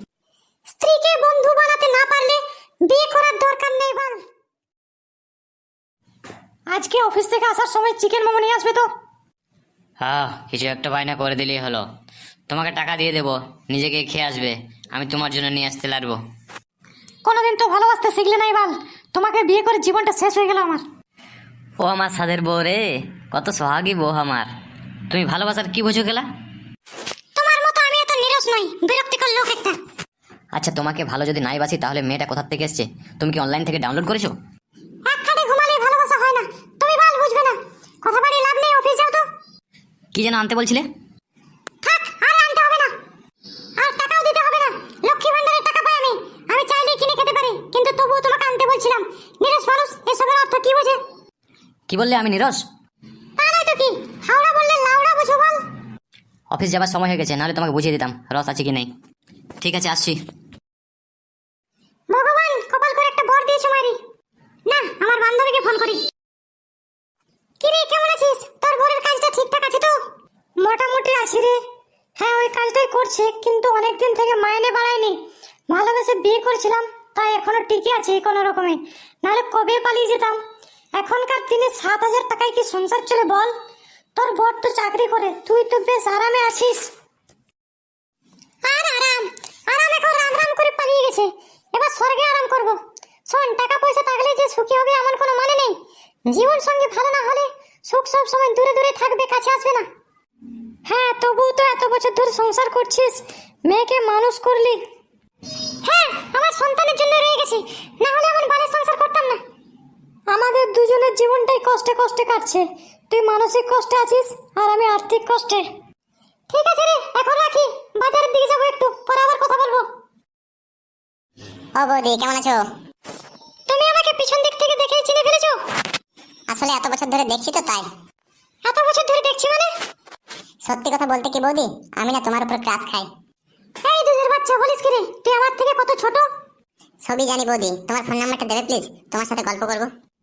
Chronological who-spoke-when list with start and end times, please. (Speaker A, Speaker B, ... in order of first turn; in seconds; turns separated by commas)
Speaker A: 0.7-4.2, Speaker A: 6.7-8.9, Speaker B: 10.0-11.8, Speaker B: 12.5-16.2, Speaker A: 17.2-20.8, Speaker B: 21.8-24.5, Speaker B: 25.1-26.3, Speaker A: 27.4-29.8, Speaker B: 30.5-34.3, Speaker A: 35.0-39.3, Speaker B: 40.1-40.9, Speaker A: 41.8-42.9, Speaker A: 43.8-51.0, Speaker B: 51.9-52.6, Speaker A: 53.4-55.6, Speaker B: 56.5-58.9, Speaker B: 59.6-60.2, Speaker A: 62.1-64.0, Speaker A: 64.7-66.0, Speaker A: 67.6-70.0, Speaker A: 70.6-71.6, Speaker A: 72.2-75.2, Speaker A: 75.7-80.4, Speaker A: 81.0-83.5, Speaker A: 84.2-86.9, Speaker A: 88.6-95.8, Speaker A: 96.3-99.9, Speaker A: 100.9-104.8, Speaker A: 105.8-109.4, Speaker A: 110.3-115.7, Speaker A: 116.5-119.8, Speaker C: 121.8-122.6, Speaker A: 123.7-125.6, Speaker C: 126.5-127.9, Speaker A: 128.6-129.7, Speaker C: 130.6-133.1, Speaker A: 133.8-136.3, Speaker C: 137.0-139.9